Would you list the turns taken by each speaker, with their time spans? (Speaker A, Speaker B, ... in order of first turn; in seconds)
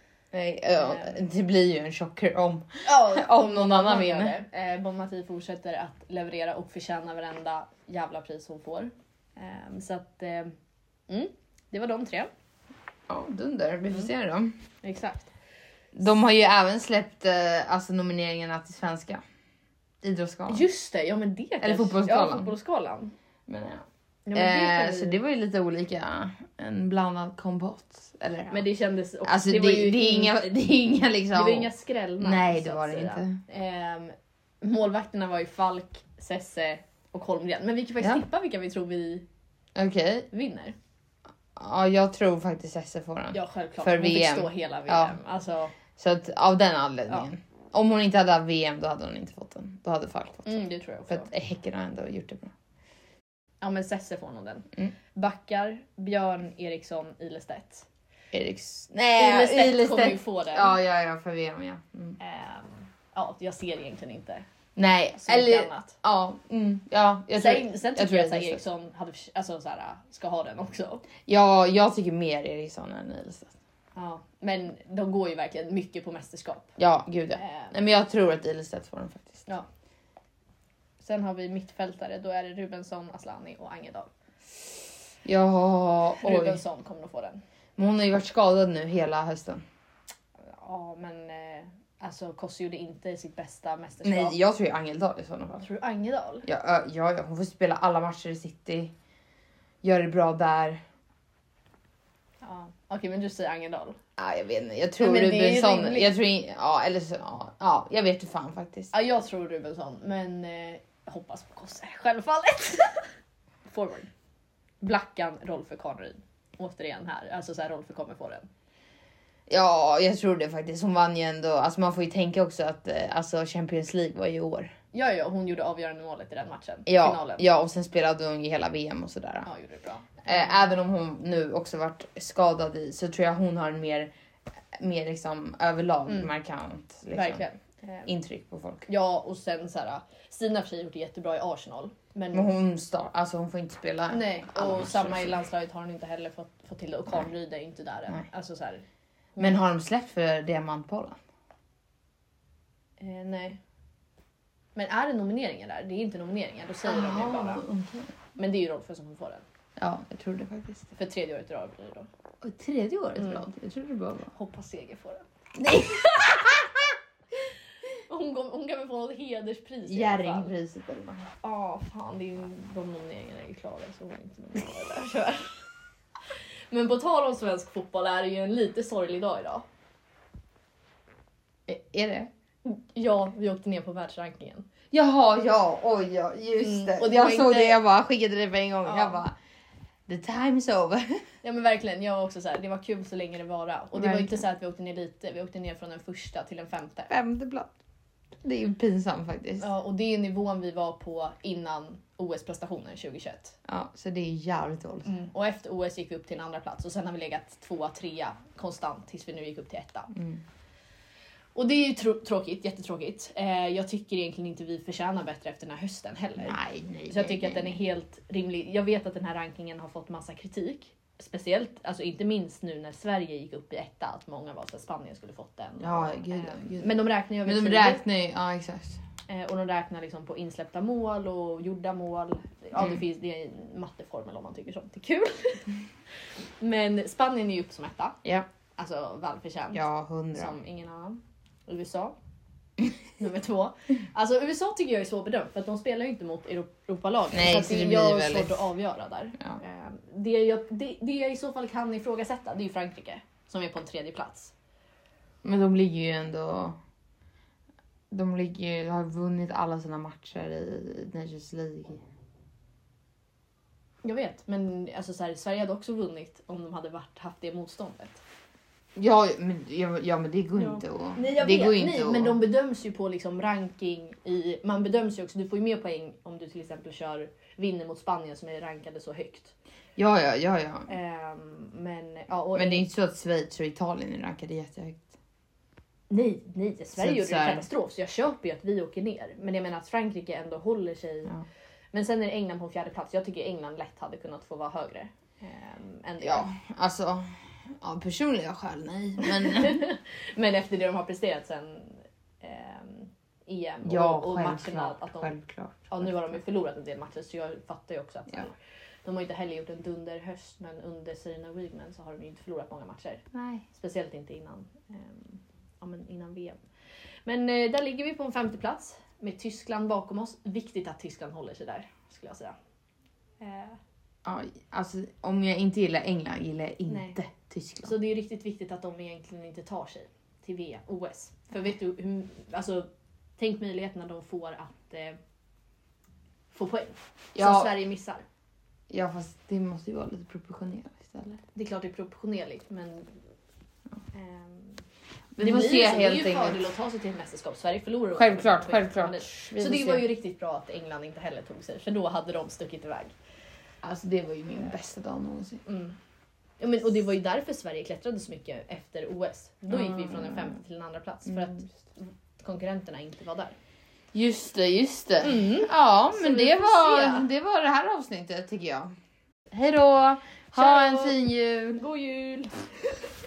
Speaker A: 0.3-4.4, 13.1-14.6, 15.9-19.2, 20.0-20.6, 21.6-22.5, 23.5-28.6, 29.2-33.4, 39.7-40.3, 41.5-45.2, 46.0-52.5, 58.3-62.2, 64.8-68.6, 71.2-73.5, 76.8-79.5, 85.2-86.6, 87.8-89.6, 94.0-95.6, 96.5-98.9, 99.8-100.8, 104.2-108.9, 119.5-124.7, 126.8-129.5, 130.2-134.1, 134.7-137.4, 138.1-138.8, 142.3-145.4, 149.4-151.2, 156.8-158.1, 159.8-160.9, 162.4-164.3, 165.6-166.9, 169.9-171.3, 181.7-182.3, 184.9-189.3, 190.1-191.2, 193.9-194.4, 197.1-197.7, 198.4-199.7, 203.7-205.1, 210.1-210.4, 216.4-217.8, 225.8-229.0, 232.8-233.0, 239.7-240.6, 247.3-248.6, 255.4-256.8, 258.1-262.0, 268.9-272.4, 280.0-280.9, 282.5-285.1, 287.0-287.7, 296.2-299.9, 303.8-306.4, 313.3-313.6, 324.2-328.0, 337.3-337.7, 338.9-341.4, 345.4-346.6, 348.1-350.1, 353.8-355.6, 359.7-360.6, 361.3-361.6, 364.1-368.9, 369.5-371.8
Speaker B: 0.7-1.2, 2.8-10.5, 11.1-12.3, 14.8-15.3, 20.5-23.1, 24.2-25.2, 28.5-30.3, 31.3-39.2, 40.3-40.7, 43.3-45.7, 50.4-51.3, 53.6-57.9, 59.1-60.8, 62.2-64.4, 65.2-66.0, 67.3-71.0, 74.0-76.8, 77.3-77.7, 81.0-84.1, 86.2-87.4, 90.5-94.4, 95.5-96.5, 102.4-104.0, 105.0-106.1, 108.9-113.1, 113.7-114.1, 114.8-118.5, 124.9-127.5, 129.4-130.7, 137.1-138.1, 138.9-142.5, 144.1-148.8, 153.0-153.6, 154.8-157.7, 158.4-159.4, 160.9-162.1, 163.2-163.4, 164.3-165.2, 168.1-170.5, 171.4-175.6, 176.7-179.7, 182.6-184.7, 186.6-187.8, 188.8-189.2, 191.4-197.1, 199.6-203.6, 205.0-210.1, 211.5-228.0, 229.3-235.7, 236.6-238.2, 238.8-242.2, 243.2-254.5, 264.0-268.2, 270.6-279.5, 280.9-282.9, 286.1-291.3, 291.9-296.5, 299.2-305.3, 305.9-316.6, 317.2-322.5, 323.4-323.8, 326.9-327.2, 327.8-332.9, 333.4-335.2, 336.5-338.2, 341.5-343.1, 344.1-344.8, 345.4-353.1, 355.6-355.9, 356.6-363.6, 365.2-367.3, 370.6-371.2, 371.8-372.8